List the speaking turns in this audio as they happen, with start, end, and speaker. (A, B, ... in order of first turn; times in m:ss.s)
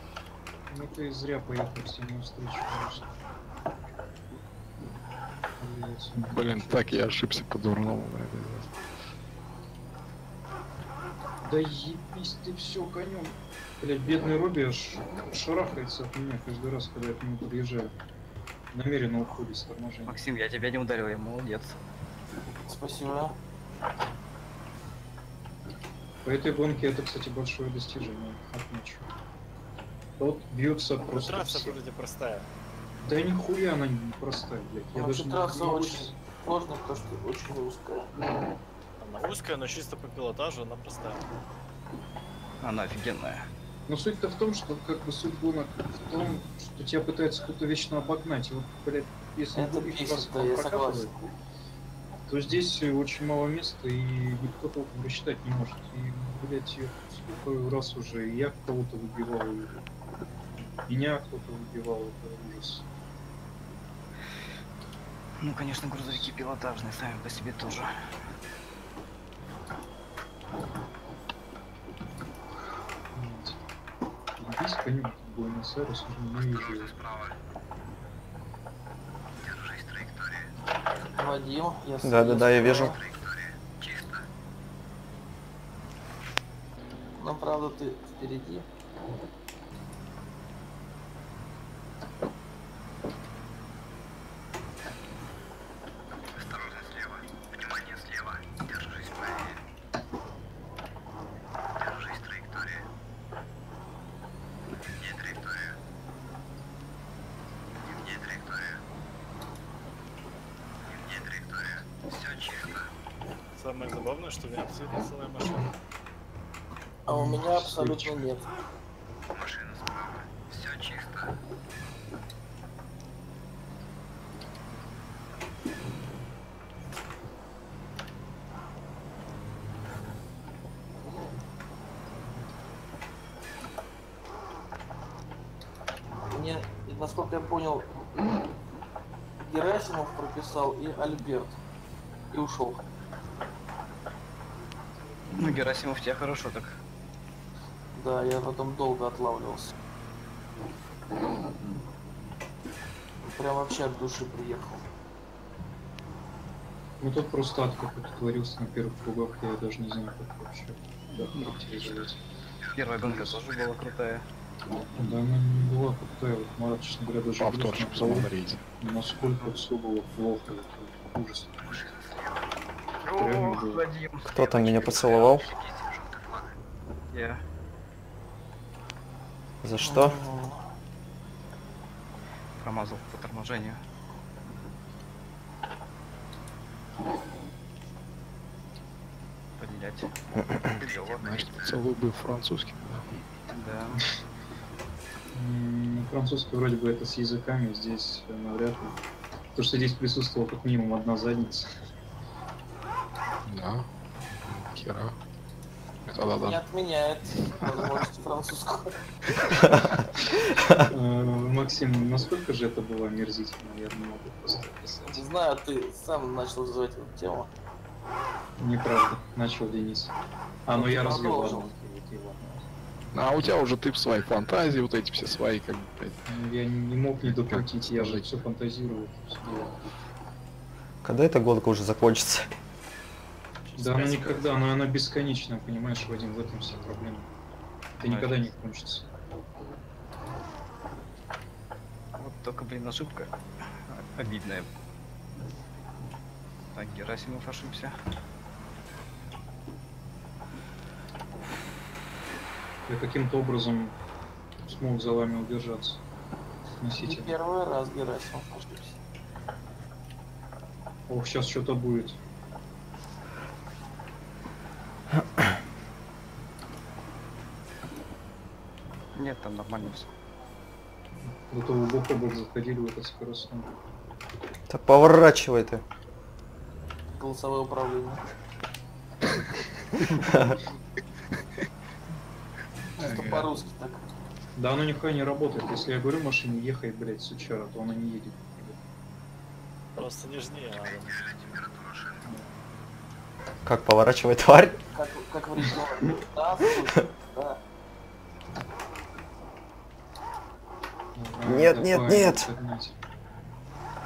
0:00.7-0:03.2 A
0:05.6-0:07.1 A
0:06.2-0:08.7 B
0:11.4-0:17.9 A
0:18.7-0:20.2 A
0:20.0-0:21.8 C
0:22.7-0:23.4 D
0:26.2-0:29.1 A
0:30.2-0:31.8 A
0:31.1-0:32.5 E
0:33.0-0:36.2 A
0:34.9-0:38.1 D
0:39.0-0:41.2 E
0:42.6-0:43.4 C
0:43.9-0:51.1 A
0:49.6-0:51.3 D
0:52.3-0:59.8 A
1:00.6-1:02.9 A
1:05.4-1:07.9 C
1:13.1-1:13.6 A
1:14.4-1:17.0 A
1:16.9-1:17.3 C
1:21.2-1:23.0 D
1:22.0-1:23.0 F
1:27.2-1:28.7 D
1:53.6-1:55.7 E
1:57.1-1:58.3 A
1:57.1-1:58.5 D
2:00.3-2:00.8 C
2:16.3-2:18.0 D
2:19.4-2:21.6 D
2:22.3-2:22.8 D
2:25.3-2:26.8 C
2:27.9-2:29.7 D
2:33.2-2:34.8 D
2:37.0-2:42.2 A
2:42.7-2:44.2 C
2:43.0-2:43.4 A
2:45.0-2:51.9 A
2:47.4-2:48.6 B
2:53.0-2:56.5 C
2:53.2-2:53.8 A
2:54.3-2:55.5 F
2:57.1-2:57.4 C
2:59.6-3:00.2 F
2:59.8-3:00.7 D
3:02.6-3:03.8 C
3:09.6-3:10.1 C
3:10.6-3:11.5 C
3:11.2-3:13.1 B
3:13.5-3:14.0 C
3:15.3-3:19.0 A
3:19.6-3:21.7 A
3:23.5-3:23.9 B
3:24.6-3:25.2 B
3:26.1-3:26.6 B
3:26.2-3:29.0 D
3:30.9-3:35.2 A
3:35.1-3:37.5 D
3:38.6-3:40.1 A
3:40.6-3:42.7 A
3:40.7-3:41.7 D
3:43.1-3:46.2 B
3:46.3-3:49.7 A
3:47.2-3:48.4 B
3:51.0-3:52.5 F
3:53.7-3:54.7 E
3:53.8-3:57.3 A
3:58.0-3:59.1 A
3:58.0-3:58.5 C
4:02.2-4:03.3 C
4:03.9-4:04.7 C
4:06.8-4:07.9 C
4:12.9-4:14.0 A
4:14.6-4:16.0 A
4:16.8-4:17.3 A
4:17.0-4:19.0 D
4:21.1-4:22.2 A
4:29.2-4:30.1 C
4:31.5-4:33.7 A
4:34.7-4:35.8 F
4:37.1-4:38.2 D
4:40.2-4:40.6 F
4:43.0-4:43.5 B
4:43.0-4:44.0 D
4:44.6-4:48.8 A
4:50.0-4:51.2 E
4:52.2-4:52.5 A
4:53.6-4:54.8 F
4:54.9-4:57.6 D
5:01.2-5:03.0 A
5:01.5-5:02.5 F